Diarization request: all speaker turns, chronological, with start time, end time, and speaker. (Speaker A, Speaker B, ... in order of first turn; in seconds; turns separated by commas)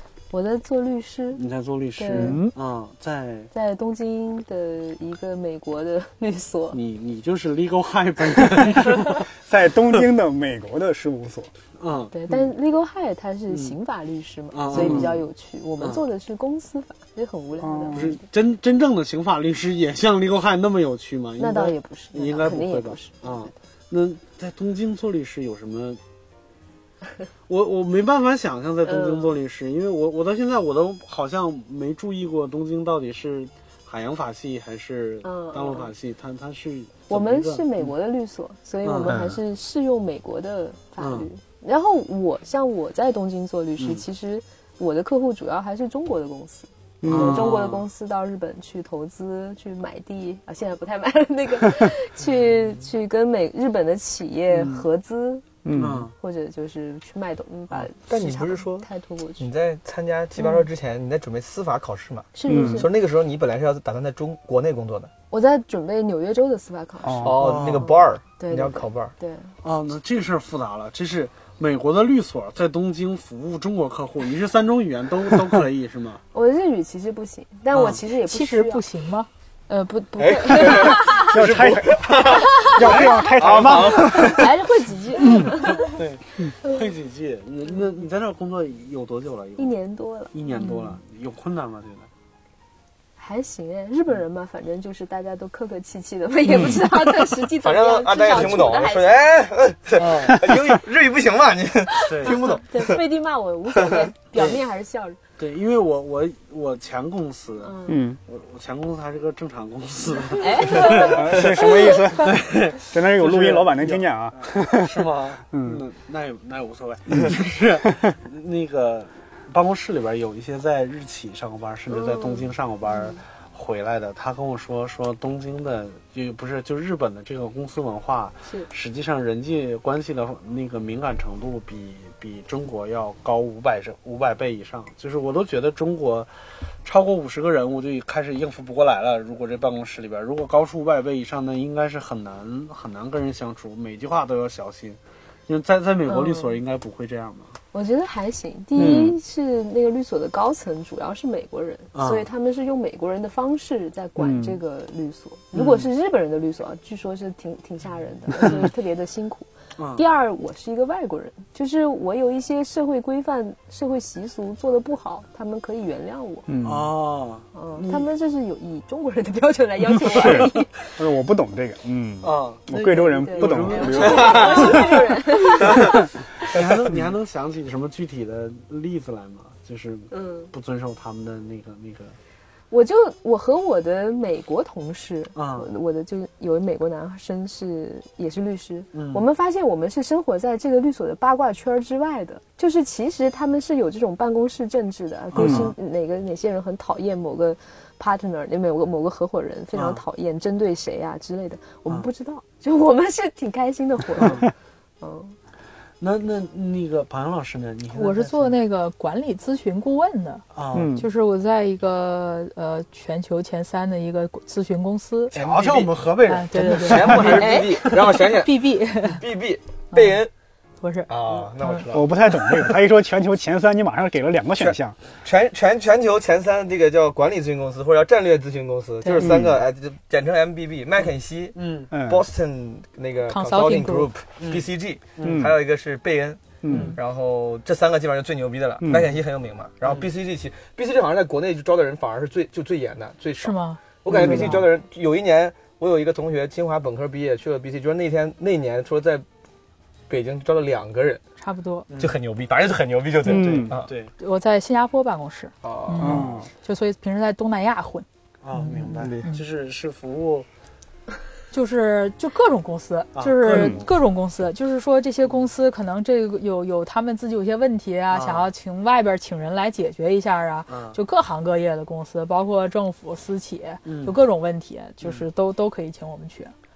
Speaker A: 0.3-1.4, Speaker B: 1.4-3.5, Speaker A: 2.0-2.4, Speaker C: 2.1-2.5, Speaker A: 3.5-6.8, Speaker B: 6.7-9.2, Speaker C: 9.4-11.5, Speaker B: 11.8-12.5, Speaker A: 12.1-18.2, Speaker B: 13.5-13.8, Speaker B: 14.5-15.2, Speaker C: 14.7-15.1, Speaker B: 15.8-16.0, Speaker C: 17.6-18.2, Speaker B: 17.9-26.0, Speaker A: 21.4-23.5, Speaker B: 27.5-37.9, Speaker A: 28.9-29.3, Speaker A: 35.2-35.9, Speaker A: 37.1-55.5, Speaker B: 38.8-39.2, Speaker B: 41.0-41.3, Speaker B: 43.8-44.0, Speaker C: 47.0-47.5, Speaker B: 47.1-47.9, Speaker B: 54.5-54.8, Speaker C: 55.6-56.1, Speaker B: 55.8-56.1, Speaker A: 56.2-59.5, Speaker D: 57.8-58.9, Speaker D: 59.4-65.1, Speaker A: 62.4-62.9, Speaker C: 62.5-62.9, Speaker A: 65.3-69.5, Speaker C: 67.0-67.6, Speaker D: 67.2-69.1, Speaker B: 67.4-67.9, Speaker B: 69.6-76.2, Speaker A: 76.3-78.8, Speaker B: 77.7-78.0, Speaker E: 78.3-79.3, Speaker A: 79.7-81.5, Speaker D: 80.2-82.7, Speaker C: 81.1-84.5, Speaker B: 81.3-82.0, Speaker A: 82.3-83.2, Speaker B: 82.8-83.3, Speaker D: 83.4-84.5, Speaker A: 84.2-86.0, Speaker C: 85.3-85.5, Speaker B: 85.4-89.8, Speaker A: 89.6-90.9, Speaker B: 90.3-92.1, Speaker A: 93.2-99.2, Speaker D: 97.2-103.1, Speaker B: 100.0-100.4, Speaker B: 102.1-102.4, Speaker A: 102.2-105.2, Speaker D: 103.7-104.1, Speaker B: 104.3-104.6, Speaker B: 105.4-111.3, Speaker A: 107.6-108.0, Speaker C: 107.9-108.2, Speaker A: 110.3-112.1, Speaker C: 110.8-115.8, Speaker B: 112.2-136.3, Speaker C: 117.1-118.1, Speaker A: 121.9-123.2, Speaker B: 136.8-147.6, Speaker A: 146.1-146.6, Speaker A: 147.7-166.5, Speaker C: 148.8-149.2, Speaker B: 151.9-152.3, Speaker C: 154.2-154.6, Speaker B: 155.5-155.9, Speaker B: 158.4-158.7, Speaker B: 159.8-160.0, Speaker C: 166.5-166.9, Speaker B: 166.6-168.1, Speaker A: 167.5-170.9, Speaker C: 170.0-175.0, Speaker B: 170.2-170.5, Speaker B: 172.2-175.0, Speaker A: 173.2-176.1, Speaker D: 174.1-174.7, Speaker D: 175.6-175.9, Speaker B: 176.4-182.2, Speaker A: 180.1-180.5, Speaker A: 182.7-205.4, Speaker B: 185.3-185.7, Speaker B: 188.9-189.2, Speaker B: 195.3-195.8, Speaker C: 195.4-195.7, Speaker B: 199.7-200.0, Speaker B: 204.2-204.5, Speaker B: 206.0-208.5, Speaker E: 207.9-210.4, Speaker B: 210.5-210.9, Speaker C: 210.7-211.1, Speaker E: 211.0-215.3, Speaker D: 215.3-215.9, Speaker B: 215.3-218.0, Speaker E: 216.3-217.5, Speaker D: 216.7-220.3, Speaker A: 217.2-217.9, Speaker E: 218.3-219.2, Speaker E: 220.8-221.1, Speaker D: 221.1-222.3, Speaker C: 221.9-225.0, Speaker D: 224.6-249.2, Speaker E: 229.0-229.3, Speaker C: 229.2-229.6, Speaker B: 231.6-231.9, Speaker C: 231.9-232.2, Speaker E: 233.3-234.1, Speaker B: 234.4-235.5, Speaker C: 235.2-235.6, Speaker C: 236.6-237.0, Speaker C: 238.8-239.1, Speaker E: 243.4-244.6, Speaker C: 244.1-244.6, Speaker D: 250.1-251.2, Speaker E: 251.4-251.9, Speaker B: 251.9-252.2, Speaker D: 252.0-253.9, Speaker C: 253.2-253.8, Speaker B: 253.6-254.1, Speaker E: 254.2-259.4, Speaker D: 255.6-256.4, Speaker C: 256.0-256.5, Speaker B: 258.4-260.5, Speaker E: 261.5-276.5, Speaker B: 263.1-263.9, Speaker C: 263.4-263.8, Speaker B: 268.1-268.5, Speaker B: 270.7-271.0, Speaker B: 273.9-274.2